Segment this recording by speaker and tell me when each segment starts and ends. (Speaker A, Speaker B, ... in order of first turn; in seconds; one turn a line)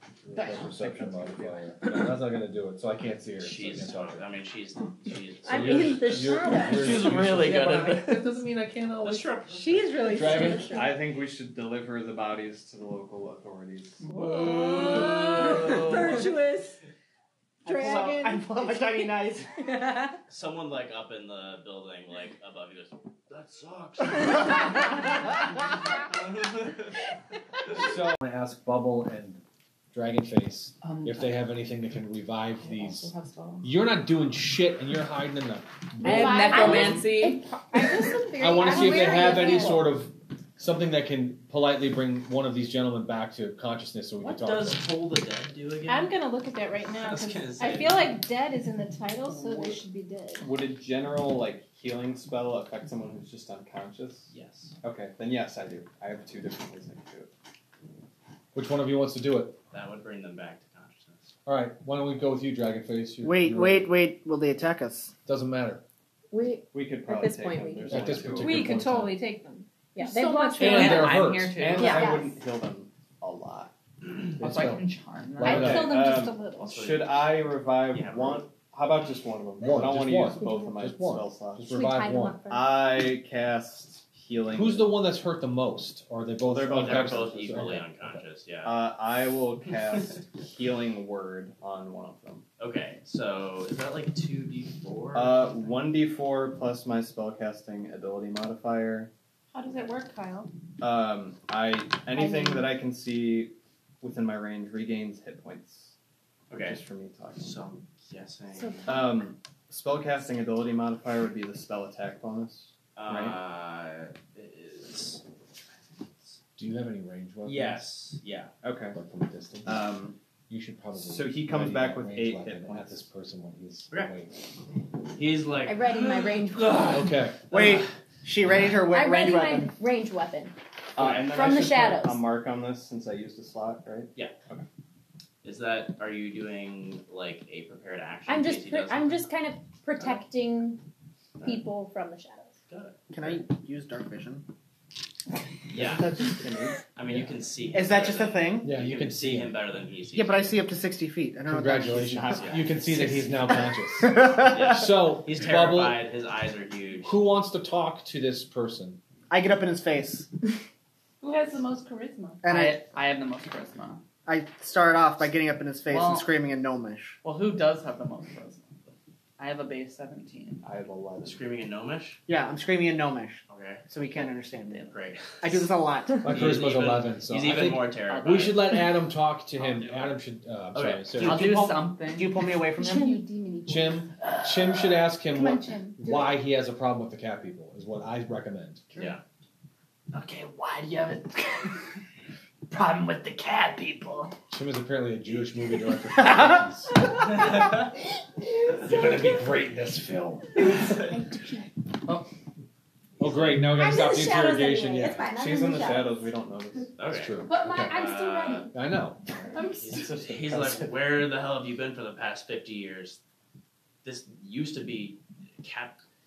Speaker A: 0.3-4.2
Speaker B: 0.4-1.7
Speaker C: 3.4-8.4
Speaker D: 5.5-6.9
Speaker A: 5.5-7.6
Speaker E: 7.2-9.3
Speaker C: 9.0-9.9
Speaker F: 9.5-10.9
Speaker A: 10.1-10.8
Speaker B: 10.6-14.0
Speaker E: 14.0-15.1
Speaker D: 14.6-16.7
Speaker F: 15.5-16.7
Speaker G: 17.6-19.5
Speaker D: 17.7-18.4
Speaker D: 19.7-20.1
Speaker C: 20.3-24.7
Speaker C: 26.4-26.8
Speaker A: 27.8-29.4
Speaker A: 29.9-36.7
Speaker E: 30.8-31.5
Speaker E: 32.6-33.7
Speaker E: 36.0-37.5
Speaker F: 36.0-39.8
Speaker D: 36.1-39.9
Speaker A: 38.4-44.8
Speaker C: 44.2-46.1
Speaker F: 45.9-50.5
Speaker C: 47.0-48.0
Speaker B: 49.3-49.8
Speaker B: 50.4-57.3
Speaker C: 54.3-54.7
Speaker A: 58.5-59.6
Speaker C: 59.7-61.4
Speaker A: 61.5-63.9
Speaker G: 63.2-65.1
Speaker A: 65.3-65.8
Speaker D: 66.3-68.3
Speaker B: 66.7-68.8
Speaker A: 67.9-69.2
Speaker F: 68.4-71.1
Speaker D: 70.0-71.2
Speaker E: 70.6-72.2
Speaker A: 70.6-71.8
Speaker B: 71.5-73.7
Speaker D: 71.8-72.3
Speaker E: 74.4-75.9
Speaker A: 74.4-76.0
Speaker F: 75.5-76.6
Speaker B: 75.5-81.8
Speaker C: 76.6-78.5
Speaker A: 79.6-82.4
Speaker D: 81.7-82.7
Speaker B: 82.4-84.9
Speaker A: 84.5-88.2
Speaker C: 86.5-88.8
Speaker B: 86.7-87.8
Speaker B: 88.6-92.4
Speaker C: 92.6-95.6
Speaker B: 95.1-99.1
Speaker F: 99.5-100.5
Speaker B: 100.8-105.9
Speaker C: 106.5-106.8
Speaker B: 106.6-107.6
Speaker C: 107.4-108.9
Speaker B: 108.9-113.4
Speaker C: 113.0-115.2
Speaker A: 116.6-117.9
Speaker C: 117.5-118.5
Speaker B: 118.6-119.0
Speaker A: 118.9-120.0
Speaker B: 119.6-120.1
Speaker A: 120.5-124.4
Speaker B: 121.0-123.0
Speaker C: 125.1-126.9
Speaker D: 125.6-127.0
Speaker A: 126.8-127.4
Speaker G: 127.5-129.7
Speaker C: 127.5-127.9
Speaker D: 128.9-130.6
Speaker B: 130.9-134.6
Speaker C: 131.0-131.2
Speaker D: 131.2-132.2
Speaker C: 135.4-139.2
Speaker D: 138.3-140.8
Speaker C: 141.4-141.6
Speaker D: 141.4-142.6
Speaker C: 142.7-143.4
Speaker G: 143.1-144.4
Speaker C: 145.7-146.1
Speaker B: 145.7-146.8
Speaker C: 146.9-150.6
Speaker G: 147.7-148.7
Speaker A: 148.6-149.6
Speaker G: 150.1-152.4
Speaker A: 151.5-156.0
Speaker C: 152.3-152.8
Speaker C: 154.4-157.2
Speaker A: 157.0-159.0
Speaker G: 159.3-160.3
Speaker F: 161.2-162.4
Speaker G: 162.4-162.8
Speaker E: 162.4-164.0
Speaker G: 164.3-167.2
Speaker E: 165.9-166.3
Speaker E: 167.2-168.7
Speaker E: 169.4-170.6
Speaker B: 170.6-171.4
Speaker C: 171.2-172.2
Speaker G: 172.3-176.3
Speaker C: 173.5-173.8
Speaker C: 174.9-175.7
Speaker A: 176.2-181.5
Speaker C: 176.2-178.6
Speaker E: 178.1-178.5
Speaker C: 179.7-180.1
Speaker C: 180.7-181.2
Speaker G: 181.2-183.2
Speaker E: 181.2-182.5
Speaker D: 182.8-183.7
Speaker F: 182.9-184.0
Speaker A: 183.7-188.8
Speaker E: 184.2-185.0
Speaker F: 185.3-186.3
Speaker C: 188.9-189.2
Speaker E: 190.1-191.8
Speaker E: 192.7-194.3
Speaker A: 194.5-197.1
Speaker A: 198.8-200.6
Speaker F: 201.1-201.6
Speaker C: 203.2-203.8
Speaker A: 203.2-205.3
Speaker D: 203.6-206.2
Speaker B: 205.3-206.9
Speaker C: 207.0-208.7
Speaker A: 207.1-208.1
Speaker D: 207.4-208.8
Speaker A: 208.7-209.2
Speaker D: 209.5-209.8
Speaker C: 209.6-213.2
Speaker B: 209.9-211.1
Speaker C: 214.0-216.0